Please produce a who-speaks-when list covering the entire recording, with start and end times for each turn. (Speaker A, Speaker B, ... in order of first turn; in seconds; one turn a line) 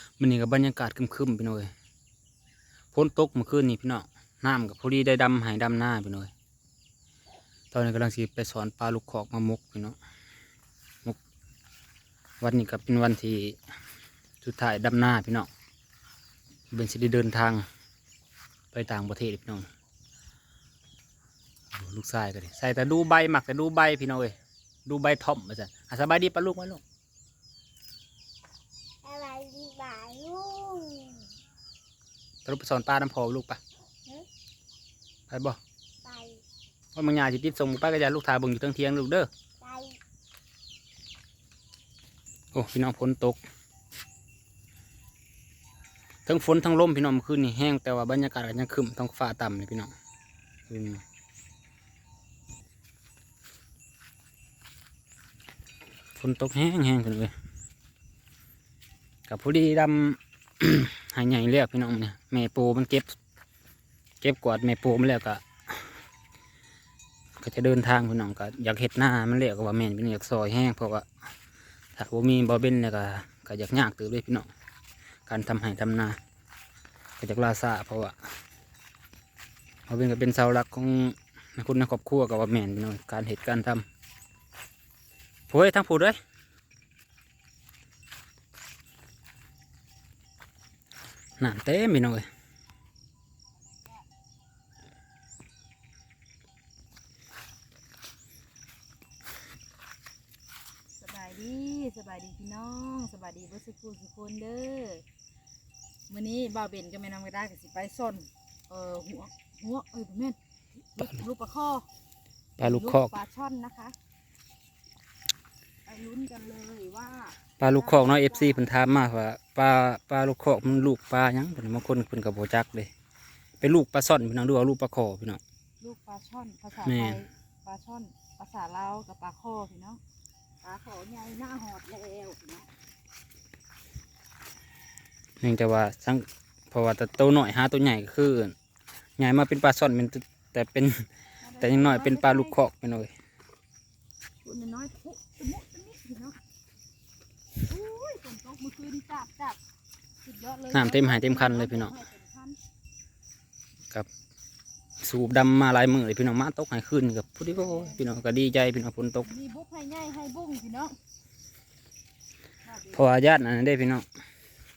Speaker A: 0.2-1.7
Speaker A: 2.9-6.3
Speaker A: 7.7-10.0
Speaker A: 12.4-13.6
Speaker A: 14.4-15.5
Speaker A: 16.7-17.6
Speaker A: 18.7-19.7
Speaker A: 21.7-24.3
Speaker A: 24.9-26.8
Speaker B: 29.0-31.3
Speaker A: 32.5-33.6
Speaker A: 35.3-35.6
Speaker B: 36.0-36.4
Speaker A: 37.0-39.3
Speaker B: 39.6-40.0
Speaker A: 42.5-43.4
Speaker A: 46.3-49.9
Speaker A: 50.7-51.0
Speaker A: 56.1-57.3
Speaker A: 59.3-63.1
Speaker A: 64.2-66.0
Speaker A: 67.4-71.1
Speaker A: 72.0-74.5
Speaker A: 75.3-76.2
Speaker A: 77.2-78.2
Speaker A: 79.9-83.8
Speaker A: 85.5-86.2
Speaker A: 91.4-92.3
Speaker C: 101.0-105.0
Speaker C: 106.1-110.4
Speaker C: 110.9-111.9
Speaker A: 112.6-113.1
Speaker C: 112.6-114.0
Speaker C: 115.9-118.7
Speaker A: 117.6-122.9
Speaker A: 123.6-125.4
Speaker C: 125.8-130.0
Speaker A: 126.8-127.2
Speaker C: 130.6-132.7
Speaker A: 135.4-138.6
Speaker A: 139.2-141.1
Speaker C: 141.4-142.6
Speaker A: 141.6-143.1
Speaker C: 144.4-146.4
Speaker C: 147.6-149.6
Speaker C: 150.2-152.6
Speaker A: 150.7-152.0
Speaker A: 155.0-159.3
Speaker C: 157.6-158.0
Speaker C: 159.2-161.0
Speaker C: 162.7-163.1
Speaker A: 162.9-164.1